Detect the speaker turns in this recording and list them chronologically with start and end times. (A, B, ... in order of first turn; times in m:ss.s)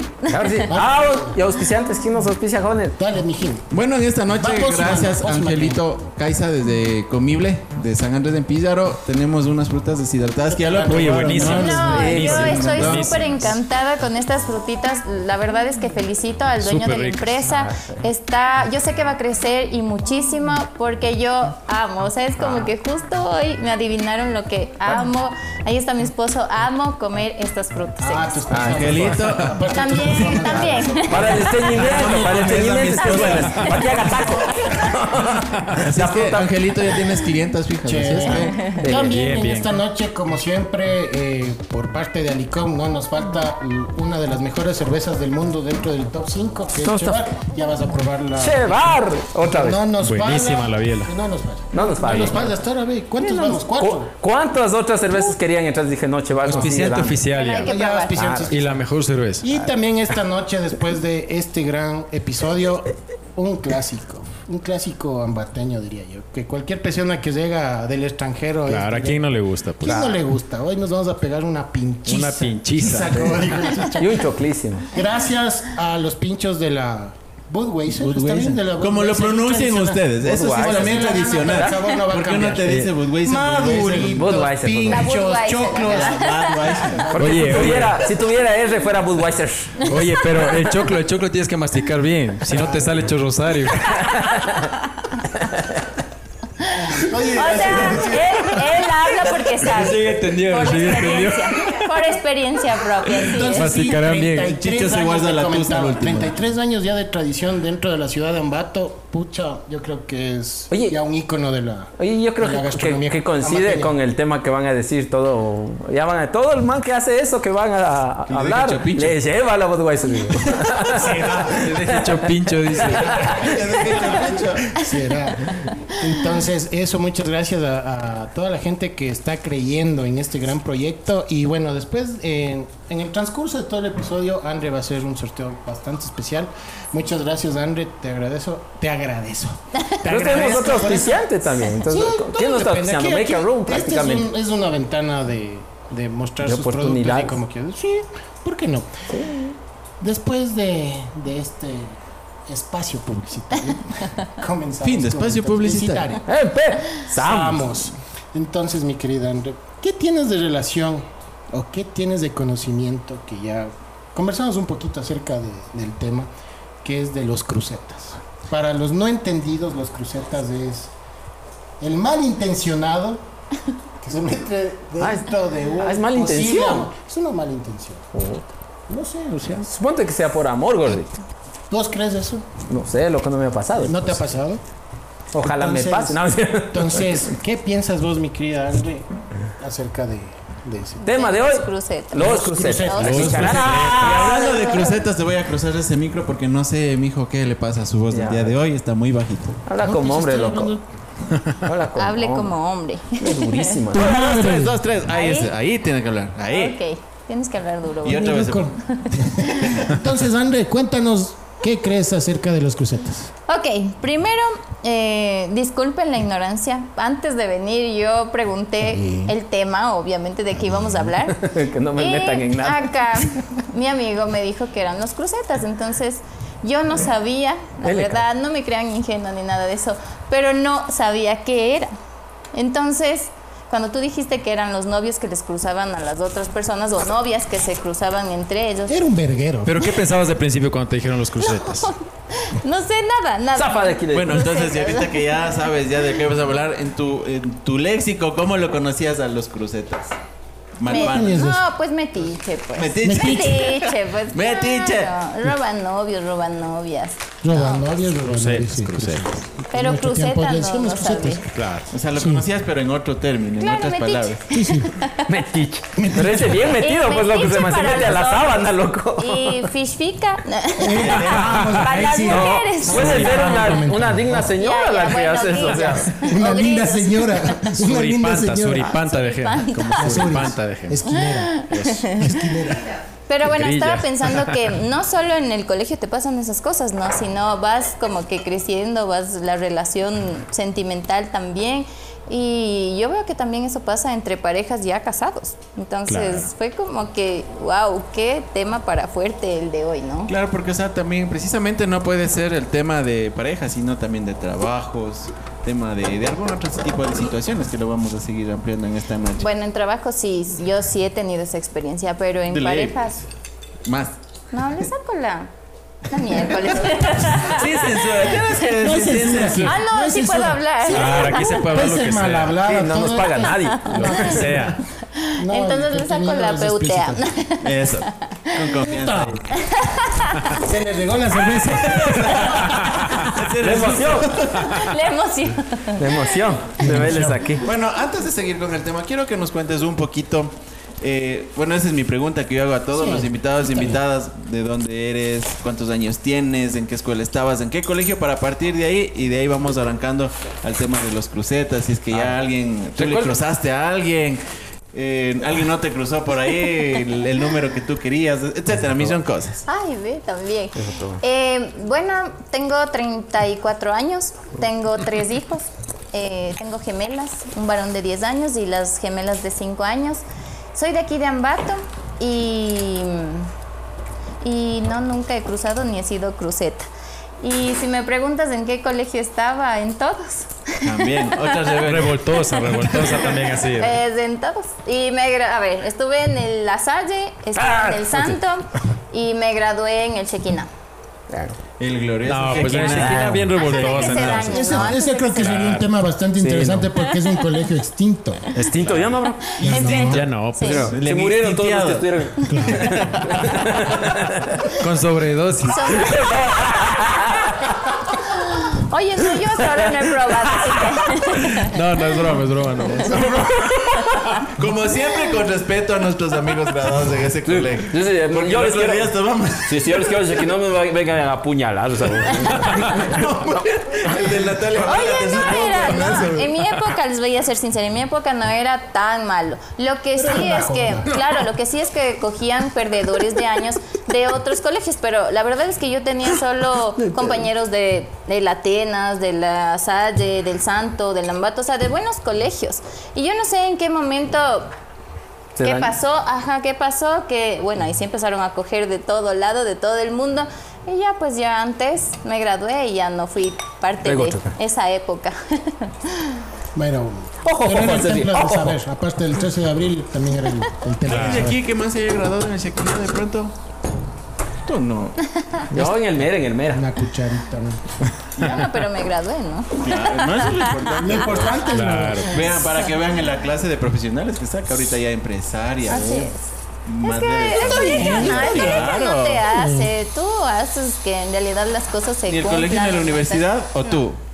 0:00.2-0:00.7 A
0:00.3-0:03.0 B
0:00.7-0:01.4 C
0:03.0-0:03.7 C
0:03.7-0:13.3 D
0:04.3-0:05.8 C
0:10.6-0:12.7 C
0:10.9-0:13.6 E
0:11.4-0:28.4 A
0:16.6-0:17.5 E
0:17.5-0:18.0 B
0:22.4-0:22.7 B
0:28.0-0:34.5 C
0:28.5-0:28.9 B
0:28.5-0:30.6 D
0:29.7-0:31.6 A
0:31.1-0:37.3 B
0:31.7-0:34.0 D
0:35.4-0:35.8 E
0:35.8-0:38.6 D
0:37.8-0:54.1 C
0:38.1-0:39.2 B
0:38.9-0:39.7 E
0:46.8-0:47.2 B
0:48.4-0:49.8 B
0:50.0-0:51.1 E
0:51.7-0:52.6 B
0:53.2-0:57.2 B
0:56.4-0:57.8 E
0:56.5-0:56.8 C
0:57.3-0:58.2 A
0:57.6-0:58.8 C
0:58.1-0:58.5 B
0:58.5-0:59.5 E
0:59.4-1:09.2 C
1:08.7-1:10.2 E
1:09.8-1:14.3 C
1:12.0-1:13.3 E
1:14.0-1:14.9 B
1:14.9-1:28.0 C
1:17.9-1:24.4 D
1:20.2-1:21.8 B
1:24.1-1:25.1 B
1:24.8-1:26.7 A
1:25.7-1:27.1 D
1:27.1-1:29.9 B
1:27.2-1:28.0 E
1:29.9-1:34.1 E
1:32.5-1:32.9 C
1:33.9-1:34.6 B
1:36.7-1:38.8 C
1:37.3-1:43.8 A
1:39.6-1:41.9 E
1:43.2-1:53.9 C
1:43.5-1:44.5 E
1:44.4-1:46.3 D
1:50.7-1:51.0 B
1:52.0-2:03.7 B
1:58.3-1:59.2 D
2:00.9-2:01.7 C
2:01.6-2:03.3 E
2:02.8-2:04.8 D
2:04.8-2:21.2 C
2:19.8-2:21.1 A
2:20.0-2:24.3 B
2:21.8-2:28.9 C
2:26.4-2:27.4 B
2:29.1-2:29.5 B
2:30.0-2:32.0 C
2:32.5-2:36.2 C
2:34.8-2:36.1 D
2:36.3-2:37.6 B
2:37.1-2:46.3 C
2:46.8-2:50.9 C
2:51.8-2:53.2 C
2:54.0-2:58.0 C
2:55.0-2:56.9 B
2:58.1-2:58.4 B
2:58.9-2:59.7 C
2:59.6-3:01.1 B
3:01.7-3:02.4 C
3:02.7-3:04.2 B
3:03.8-3:04.6 C
3:05.3-3:07.3 B
3:05.4-3:09.0 C
3:09.6-3:11.0 C
3:11.0-3:15.0 A
3:11.0-3:14.7 B
3:12.2-3:13.6 C
3:13.0-3:14.2 E
3:13.3-3:19.6 D
3:18.1-3:18.5 B
3:19.6-3:20.8 B
3:19.8-3:20.8 C
3:21.6-3:22.5 B
3:22.0-3:23.8 A
3:23.2-3:24.2 B
3:23.9-3:26.8 D
3:24.0-3:24.8 C
3:25.1-3:25.5 A
3:26.5-3:29.8 A
3:28.0-3:28.8 D
3:28.1-3:33.3 C
3:29.6-3:30.0 D
3:33.5-3:51.9 A
3:41.3-3:43.2 B
3:47.8-3:48.2 B
3:52.5-3:59.0 A
3:58.9-3:59.8 C
3:59.6-4:01.9 E
4:01.5-4:05.2 A
4:03.6-4:04.5 B
4:04.1-4:10.2 D
4:10.8-4:11.4 D
4:10.8-4:17.9 A
4:10.9-4:11.6 C
4:12.8-4:15.1 D
4:13.0-4:13.7 C
4:17.4-4:21.5 C
4:18.1-4:19.2 E
4:19.7-4:21.4 A
4:21.5-4:21.9 E
4:21.9-4:24.4 D
4:22.1-4:22.4 C
4:23.6-4:25.2 A
4:24.5-4:24.9 C
4:25.2-4:29.7 B
4:26.0-4:26.6 C
4:26.8-4:28.6 A
4:29.2-4:33.7 A
4:30.8-4:34.5 C
4:30.9-4:31.9 D
4:32.2-4:36.1 B
4:34.6-4:37.6 A
4:36.2-4:38.9 C
4:37.8-4:41.1 E
4:38.9-4:40.2 A
4:40.0-4:42.9 C
4:41.1-4:42.4 A
4:41.7-4:42.2 E
4:43.3-5:00.3 A
4:43.4-4:44.7 E
4:56.1-4:56.5 E
5:00.3-5:09.5 D
5:09.4-5:13.2 A
5:12.5-5:13.1 D
5:13.8-5:14.2 D
5:14.5-5:15.5 A
5:16.1-5:18.1 A
5:16.8-5:19.8 D
5:18.8-5:24.8 C
5:19.6-5:21.6 A
5:20.8-5:22.6 E
5:22.6-5:24.4 B
5:23.5-5:24.3 A
5:24.0-5:24.8 E
5:25.1-5:28.8 A
5:25.4-5:27.2 C
5:27.6-5:29.5 D
5:28.8-5:29.4 C
5:29.6-5:30.6 A
5:30.5-5:33.4 C
5:31.6-5:34.6 D
5:32.6-5:33.3 E
5:33.6-5:34.3 B
5:34.5-5:36.2 A
5:34.6-5:34.9 E
5:36.0-5:37.6 B
5:36.8-5:37.4 C
5:37.6-5:54.4 D
5:42.9-5:44.0 C
5:53.0-5:53.4 E
5:54.9-5:59.6 D
5:59.6-6:10.2 A
6:00.8-6:01.2 B
6:10.7-6:13.5 A
6:14.4-6:16.9 A
6:17.4-6:21.7 A
6:20.8-6:23.3 D
6:21.8-6:24.0 E
6:23.7-6:30.7 A
6:27.6-6:28.4 B
6:31.3-6:31.6 B
6:31.8-6:34.5 D
6:32.2-6:35.9 E
6:32.5-6:33.6 B
6:33.6-6:35.5 A
6:34.5-6:38.4 C
6:36.4-6:36.9 B
6:38.6-6:39.5 B
6:38.7-6:42.1 D
6:39.5-6:40.9 A
6:39.6-6:40.2 C
6:40.1-6:40.9 E
6:40.6-6:44.6 B
6:42.5-6:43.0 C
6:42.7-6:43.6 D
6:44.8-6:46.2 E
6:45.7-6:47.0 A
6:46.0-6:47.6 B
6:48.2-6:51.7 A
6:51.5-6:53.5 E
6:53.0-6:53.6 D
6:54.5-7:00.2 D
6:57.4-7:04.1 B
7:02.8-7:06.5 D
7:04.8-7:24.7 A
7:10.2-7:11.3 C
7:25.6-7:25.9 B
7:25.6-7:36.4 A
7:34.0-7:34.5 B
7:36.7-7:41.6 C
7:37.4-7:38.8 B
7:41.1-7:41.5 E
7:41.1-7:43.5 D
7:44.6-7:45.2 D
7:45.7-7:46.9 B
7:46.7-7:47.8 C
7:48.4-7:51.6 A
7:49.8-7:56.3 D
7:50.9-7:52.3 C
7:51.7-7:52.4 E
7:52.4-7:52.9 A
7:55.9-8:04.0 A
7:56.8-7:59.4 D
7:57.9-7:58.8 C
7:59.5-7:59.9 C
8:02.3-8:04.2 D